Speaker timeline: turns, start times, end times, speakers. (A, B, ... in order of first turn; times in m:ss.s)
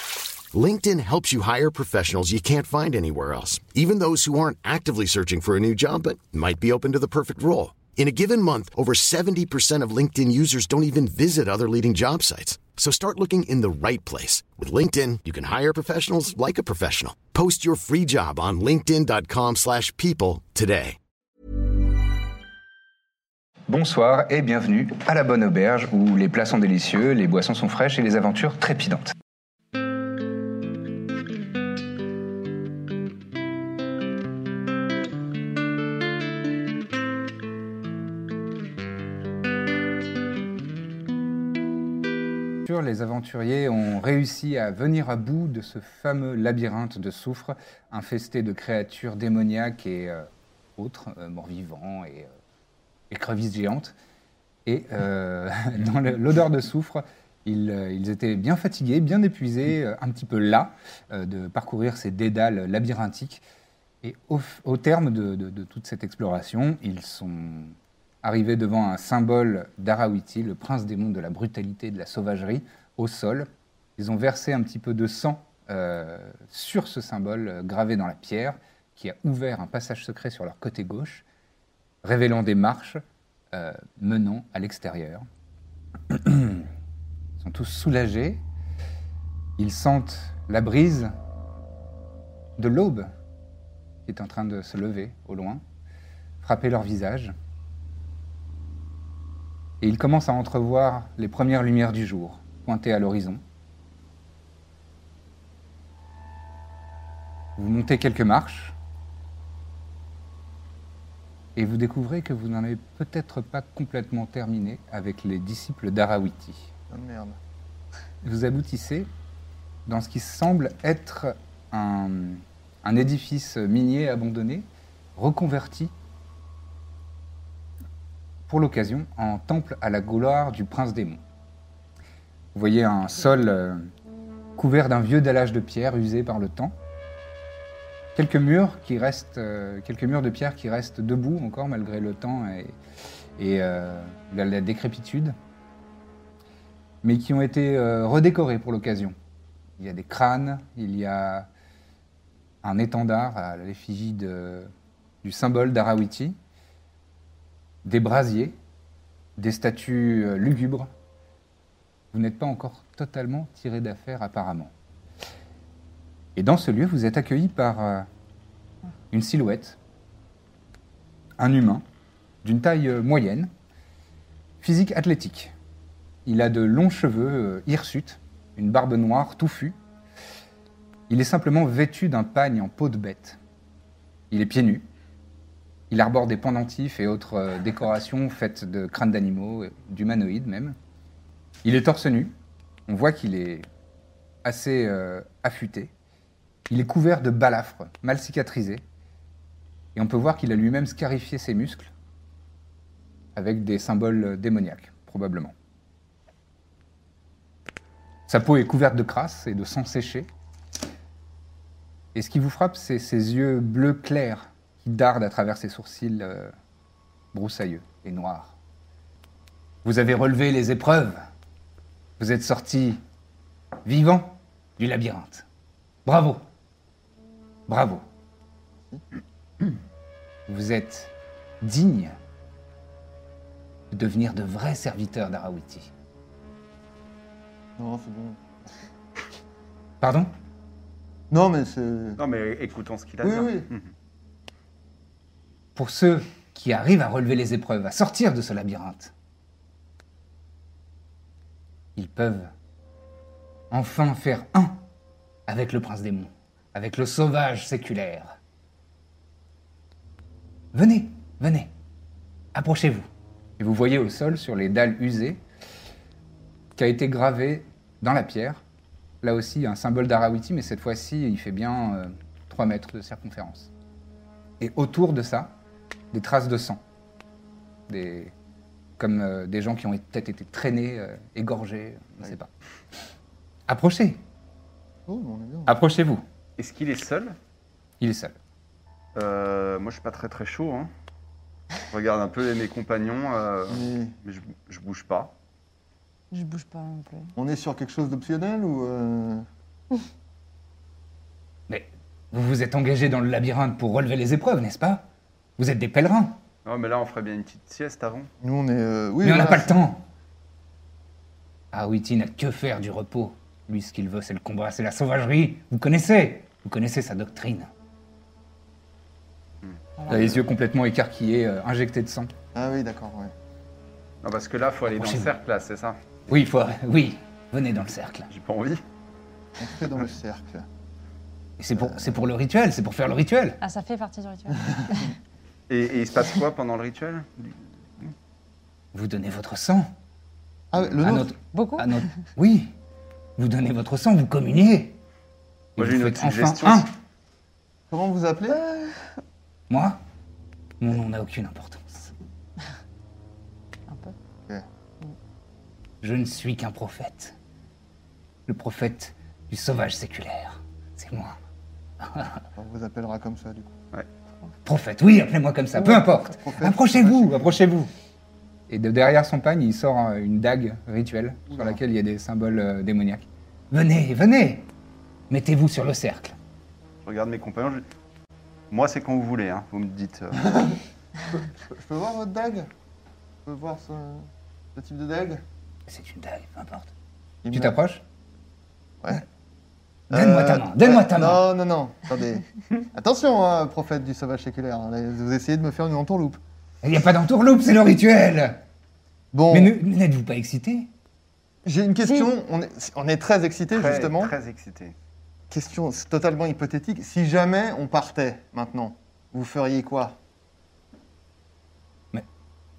0:00.5-0:21.0 A
0:23.7-0:29.1 B
0:42.6-0:52.3 B
0:53.1-0:53.9 B
0:54.6-1:03.4 B
1:04.0-1:21.2 B
1:22.0-1:23.0 B
1:23.5-1:25.2 B
1:26.1-1:26.7 B
1:27.4-1:28.4 B
1:29.6-1:31.1 B
1:32.6-1:33.1 B
1:34.0-1:35.6 B
1:36.4-1:37.3 B
1:39.8-1:43.4 B
1:47.6-1:48.8 B
1:51.6-1:56.7 B
1:56.9-1:57.4 C
1:58.2-1:59.1 B
1:59.8-2:05.9 B
2:08.5-2:11.2 B
2:12.5-2:13.9 B
2:14.6-2:16.7 B
2:18.1-2:22.8 B
2:23.4-2:25.3 B
2:27.0-2:29.2 B
2:29.8-2:31.5 B
2:32.6-2:34.7 B
2:35.2-2:36.4 B
2:37.8-2:38.6 B
2:39.4-2:40.9 B
2:42.1-2:44.7 B
2:46.3-2:48.1 B
2:49.1-2:49.8 B
2:51.4-2:51.8 B
2:52.4-2:53.5 B
2:54.6-2:55.5 B
2:56.2-2:59.8 B
3:01.1-3:03.4 B
3:04.3-3:04.9 B
3:05.9-3:10.8 B
3:11.6-3:12.3 B
3:12.9-3:13.6 B
3:14.4-3:15.9 B
3:16.7-3:18.8 B
3:19.9-3:21.9 B
3:23.3-3:25.5 B
3:28.3-3:30.3 B
3:32.1-3:36.5 B
3:37.3-3:38.5 B
3:39.8-3:41.2 B
3:42.2-3:43.0 B
3:43.8-3:45.4 B
3:46.0-3:46.4 B
3:47.7-3:48.0 B
3:50.5-3:52.2 B
3:53.9-3:55.9 B
3:57.8-3:58.5 C
4:00.0-4:00.3 B
4:01.3-4:02.2 C
4:02.2-4:03.9 D
4:03.2-4:03.7 C
4:05.8-4:09.1 B
4:12.0-4:12.5 B
4:13.7-4:14.8 B
4:15.5-4:18.4 B
4:20.7-4:21.7 B
4:22.5-4:23.0 B
4:23.6-4:25.4 B
4:26.8-4:28.6 B
4:29.2-4:33.7 B
4:34.6-4:35.5 B
4:36.1-4:36.8 B
4:37.9-4:38.3 B
4:39.0-4:42.5 B
4:43.7-4:44.2 B
4:45.1-4:45.8 C
4:45.7-4:46.2 B
4:46.6-4:47.4 D
4:48.0-4:48.4 B
4:49.1-4:50.9 D
4:51.9-4:55.3 D
4:53.7-4:54.1 C
4:56.3-4:57.3 E
4:57.4-4:59.4 C
5:01.7-5:05.1 B
5:05.6-5:06.4 B
5:06.6-5:08.3 D
5:08.4-5:09.8 C
5:09.2-5:10.0 B
5:11.7-5:17.7 B
5:19.6-5:20.2 D
5:20.1-5:22.3 B
5:22.5-5:23.3 C
5:24.2-5:26.0 D
5:24.9-5:25.3 B
5:26.3-5:28.3 B
5:28.3-5:28.8 D
5:29.6-5:30.6 C
5:31.6-5:33.6 B
5:33.6-5:35.1 E
5:35.7-5:38.1 D
5:38.9-5:39.9 B
5:40.7-5:41.3 C
5:41.0-5:42.7 B
5:41.4-5:42.0 E
5:43.4-5:45.0 B
5:45.8-5:46.9 B
5:45.8-5:46.9 D
5:47.9-5:48.6 C
5:49.7-5:50.0 B
5:50.8-5:52.1 B
5:53.9-5:54.1 E
5:56.0-5:57.3 B
5:58.5-6:01.4 B
6:02.0-6:02.4 B
6:02.6-6:03.7 C
6:04.6-6:07.9 B
6:05.9-6:07.6 C
6:08.7-6:14.7 B
6:11.5-6:11.8 C
6:15.3-6:16.4 B
6:17.0-6:17.8 D
6:18.7-6:20.5 D
6:20.5-6:20.8 C
6:21.7-6:22.7 C
6:23.4-6:25.4 C
6:25.9-6:26.9 B
6:27.4-6:27.8 C
6:27.5-6:28.0 B
6:30.1-6:31.4 B
6:30.1-6:36.4 C
6:36.8-6:38.6 B
6:39.3-6:39.7 C
6:39.5-6:40.9 B
6:41.6-6:44.3 C
6:43.7-6:44.9 D
6:45.5-6:50.2 C